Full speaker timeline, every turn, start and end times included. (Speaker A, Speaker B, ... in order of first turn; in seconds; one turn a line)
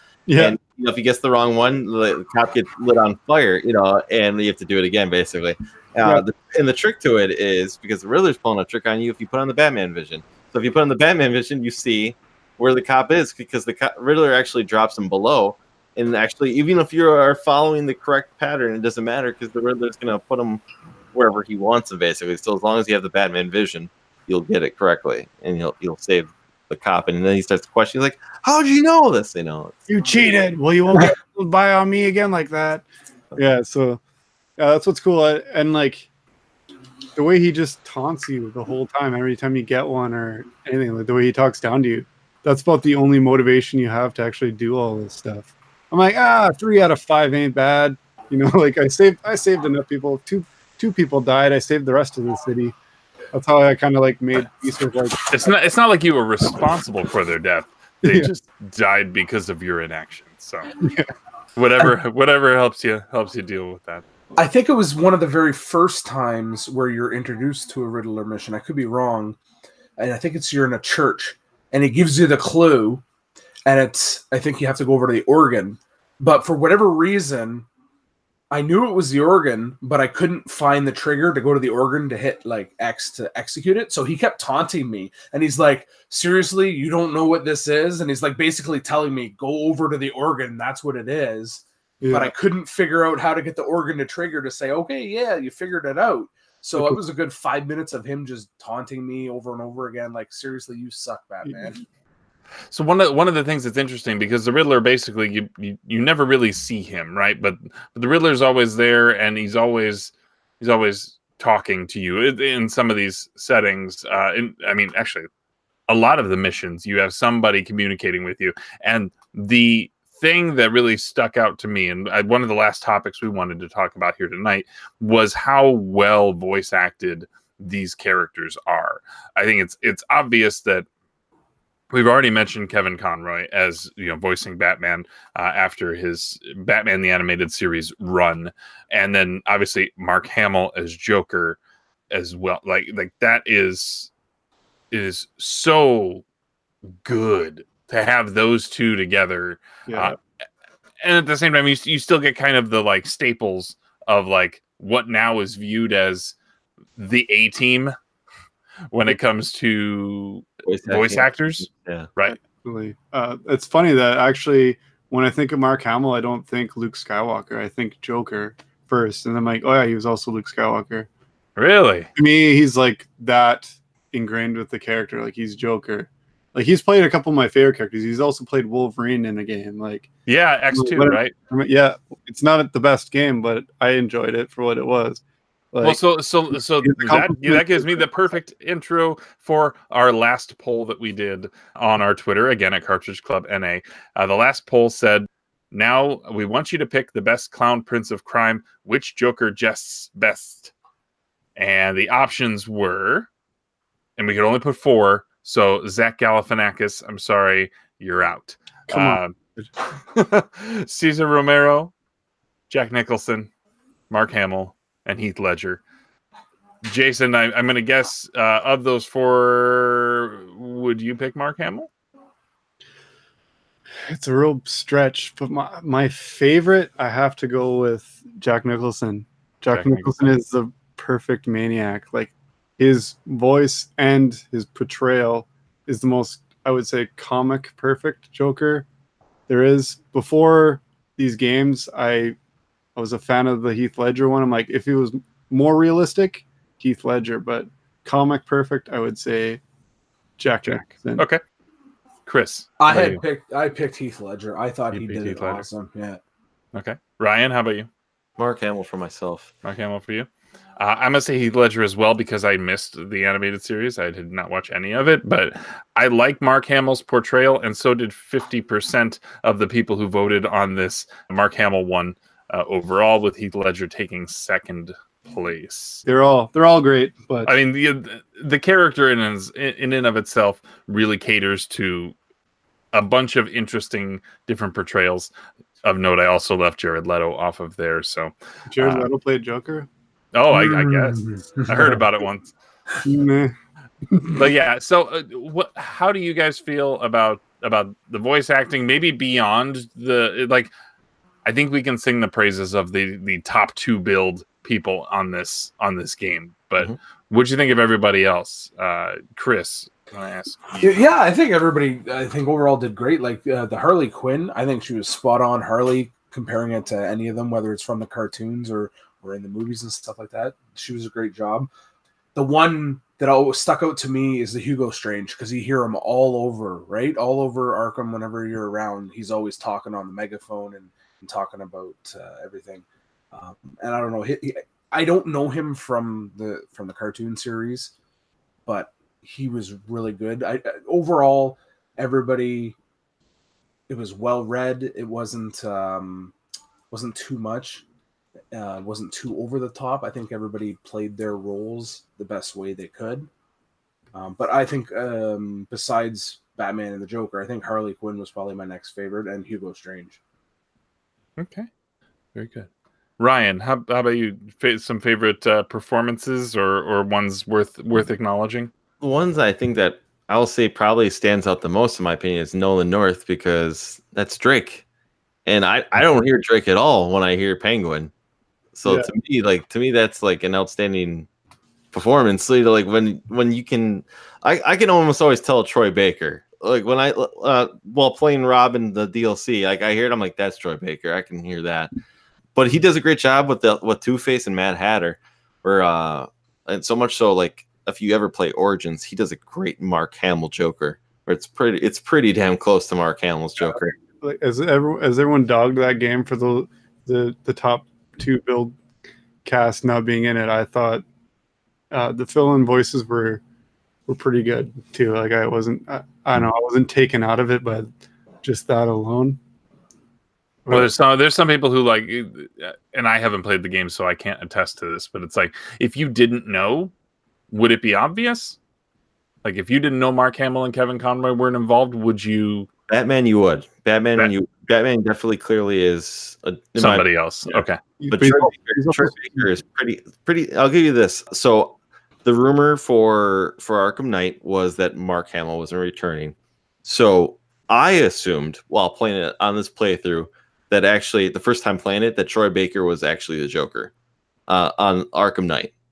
Speaker A: 0.3-0.6
Speaker B: 0.4-20.6
Speaker B: 21.1-29.7
Speaker A: 29.9-32.8
Speaker A: 33.4-34.0
Speaker A: 34.6-36.1
Speaker A: 37.1-52.7
Speaker A: 53.3-55.5
Speaker C: 55.3-60.7
Speaker A: 58.0-58.3
Speaker A: 60.8-61.1
Speaker C: 61.5-64.0
Speaker D: 64.4-69.4
Speaker D: 70.0-73.0
Speaker D: 73.7-77.7
Speaker D: 78.5-101.8
Speaker A: 92.0-92.3
Speaker A: 101.4-101.7
Speaker C: 102.7-115.3
Speaker C: 115.9-130.9
Speaker C: 131.9-141.6
Speaker C: 142.1-144.1
Speaker C: 144.9-146.2
Speaker C: 147.0-150.2
Speaker A: 149.9-150.1
Speaker C: 151.0-156.3
Speaker C: 157.0-157.9
Speaker C: 158.9-162.4
Speaker B: 160.7-162.1
Speaker A: 162.4-171.1
Speaker C: 171.6-172.1
Speaker A: 172.2-180.1
Speaker C: 180.2-181.3
Speaker A: 180.7-186.0
Speaker C: 185.8-200.7
Speaker A: 186.8-188.1
Speaker C: 201.6-203.3
Speaker C: 204.2-209.3
Speaker A: 208.9-209.7
Speaker C: 209.9-211.9
Speaker C: 212.7-213.5
Speaker C: 214.1-215.8
Speaker C: 216.8-221.9
Speaker A: 224.0-238.9
Speaker C: 229.7-230.2
Speaker A: 239.5-242.3
Speaker A: 242.9-249.6
Speaker A: 250.4-251.2
Speaker C: 250.7-251.4
Speaker C: 252.2-253.2
Speaker D: 252.8-256.2
Speaker C: 254.9-255.7
Speaker C: 256.7-257.9
Speaker B: 258.4-259.5
Speaker C: 259.6-276.0
Speaker A: 276.1-277.5
Speaker C: 277.4-282.1
Speaker C: 282.9-285.3
Speaker C: 285.8-289.1
Speaker A: 288.7-289.9
Speaker C: 290.3-292.5
Speaker D: 290.5-292.0
Speaker A: 293.0-293.5
Speaker A: 294.1-294.4
Speaker C: 294.3-300.7
Speaker C: 301.4-310.9
Speaker D: 310.8-321.7
Speaker D: 322.3-337.9
Speaker D: 338.7-342.8
Speaker D: 343.9-346.3
Speaker D: 346.9-347.8
Speaker D: 348.5-353.3
Speaker D: 354.1-360.2
Speaker C: 361.4-361.7
Speaker C: 362.3-362.7
Speaker C: 363.2-368.7
Speaker B: 369.0-374.8
Speaker B: 375.4-378.1
Speaker B: 378.7-381.3
Speaker A: 378.8-379.1
Speaker B: 381.9-391.9
Speaker B: 392.6-403.9
Speaker A: 403.7-408.8
Speaker A: 409.4-411.0
Speaker A: 411.9-413.4
Speaker A: 414.1-417.9
Speaker A: 418.4-419.4
Speaker A: 420.6-420.9
Speaker C: 420.7-426.9
Speaker C: 427.5-428.6
Speaker C: 429.4-432.7
Speaker B: 432.9-437.5
Speaker C: 436.8-437.8
Speaker A: 438.0-439.2
Speaker B: 438.1-453.9
Speaker B: 454.5-455.7